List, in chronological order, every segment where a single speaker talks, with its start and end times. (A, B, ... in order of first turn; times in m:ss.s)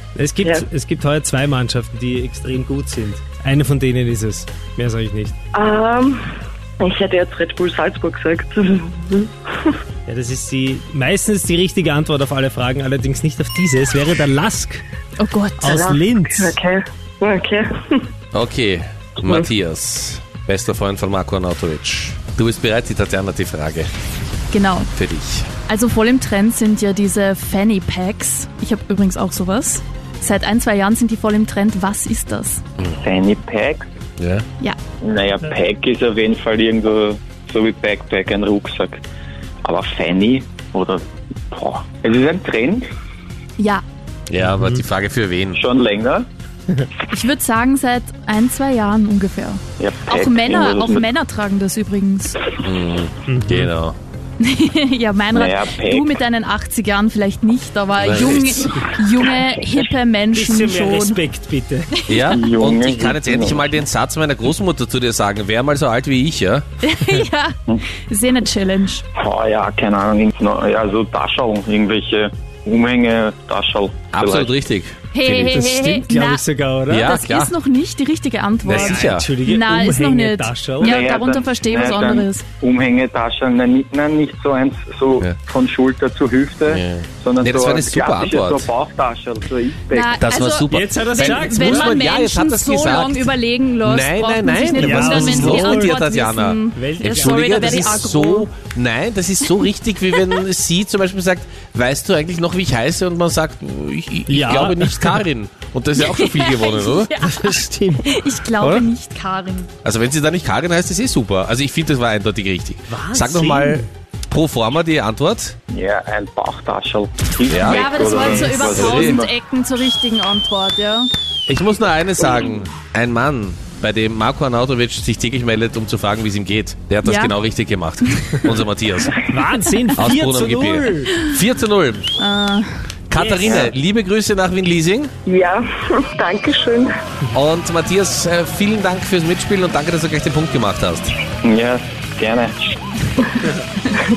0:00.2-0:05.3 A
0:05.5-0:06.2 B
0:06.8-0:09.8 B
0:10.1-0:14.8 A
0:15.2-0:15.6 C
0:15.6-0:16.6 A
0:15.6-0:18.0 B
0:18.3-0:23.9 D
0:19.2-0:19.5 B
0:24.5-0:24.9 C
0:24.9-0:25.5 D
0:25.6-0:32.6 C
0:33.0-0:33.9 E
0:34.2-0:34.5 D
0:35.0-0:39.0 E
0:39.6-0:42.9 E
0:43.6-0:43.8 C
0:44.3-0:45.6 D
0:44.4-0:44.8 A
0:45.5-0:46.3 E
0:47.1-0:52.5 C
0:49.8-0:51.1 E
0:52.6-0:54.0 D
0:53.3-0:53.7 A
0:54.4-1:01.2 C
0:55.3-0:56.2 E
0:58.0-0:58.9 D
1:00.3-1:02.0 A
1:02.1-1:02.4 C
1:02.1-1:06.6 D
1:02.3-1:03.8 E
1:06.8-1:07.6 C
1:08.1-1:09.0 C
1:09.2-1:14.6 E
1:14.1-1:15.5 D
1:15.1-1:16.4 C
1:15.5-1:17.2 A
1:16.9-1:17.5 D
1:17.0-1:22.4 C
1:18.6-1:19.4 D
1:18.7-1:21.0 A
1:20.8-1:30.2 E
1:26.7-1:28.7 D
1:29.9-1:38.5 C
1:30.2-1:33.3 D
1:30.7-1:32.0 A
1:33.8-1:36.6 D
1:34.7-1:36.0 A
1:36.8-1:37.8 A
1:37.2-1:47.1 D
1:40.2-1:40.4 C
1:44.3-1:45.2 A
1:46.0-1:49.7 C
1:47.3-1:48.2 A
1:48.6-1:48.9 D
1:49.8-1:55.6 D
1:52.9-1:53.9 A
1:55.7-1:59.3 E
1:57.5-1:57.8 D
1:57.7-2:01.1 C
1:58.7-1:59.2 D
2:01.5-2:09.2 D
2:07.0-2:07.4 C
2:08.1-2:08.4 C
2:09.2-2:11.2 A
2:10.0-2:12.1 D
2:12.2-2:12.7 C
2:13.1-2:15.1 D
2:13.4-2:13.7 E
2:15.3-2:16.9 B
2:17.3-2:21.2 D
2:21.4-2:22.8 E